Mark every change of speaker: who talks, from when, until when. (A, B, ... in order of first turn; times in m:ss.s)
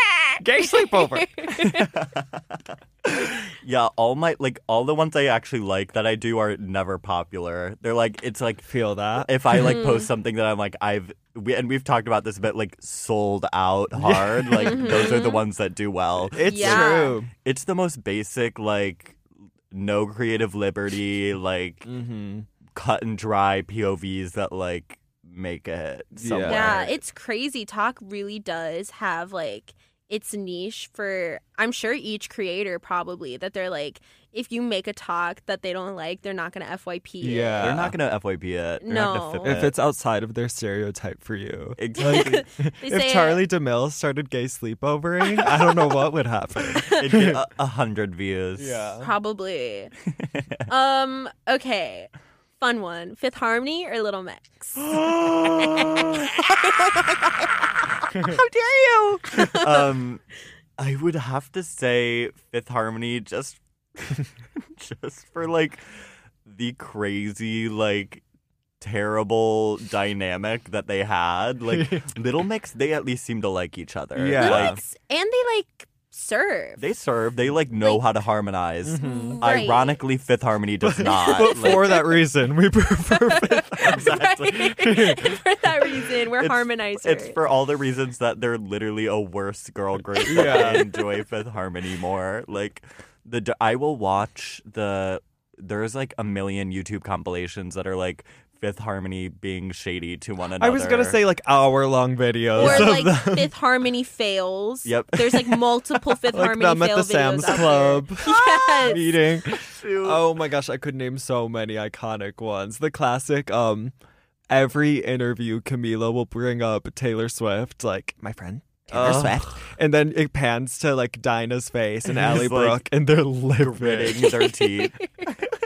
0:00.3-0:02.0 A
0:00.4-0:01.7 B
0:01.6-0:19.2 C
0:08.7-0:09.8 B
0:09.5-0:10.1 A
0:14.0-0:15.1 B
0:14.6-0:15.4 A
0:16.3-0:17.3 B
0:16.4-0:17.2 A
0:19.7-0:21.9 C
0:21.8-0:22.5 B
0:22.7-0:27.0 C
0:26.2-0:26.8 B
0:26.5-0:37.8 A
0:37.2-0:38.0 B
0:37.6-0:39.8 C
0:38.8-0:39.6 A
0:39.4-0:47.4 B
0:41.8-0:42.4 C
0:42.0-0:43.4 A
0:46.8-0:48.8 C
0:48.6-0:49.1 B
0:49.0-0:49.9 A
0:50.2-0:50.6 C
0:50.7-0:54.9 A
0:54.8-0:57.5 C
0:55.5-0:56.9 A
0:58.0-1:00.2 C
0:59.3-0:59.9 A
1:00.8-1:05.8 C
1:06.4-1:08.2 C
1:08.8-1:14.8 C
1:11.7-1:12.1 B
1:14.2-1:14.8 B
1:14.4-1:16.8 A
1:16.8-1:22.0 C
1:18.8-1:19.5 B
1:19.0-1:20.0 A
1:20.8-1:24.1 B
1:21.2-1:22.2 A
1:23.1-1:27.4 A
1:23.8-1:24.8 C
1:24.8-1:25.4 B
1:26.3-1:41.2 C
1:30.2-1:30.9 B
1:30.3-1:30.8 A
1:40.6-1:43.5 B
1:42.6-1:43.0 C
1:42.6-1:49.1 A
1:44.8-1:45.6 C
1:46.3-1:53.9 B
1:48.2-1:50.2 C
1:54.5-2:04.3 B
1:58.9-1:59.7 C
2:02.1-2:02.8 C
2:03.6-2:05.3 C
2:04.2-2:05.3 A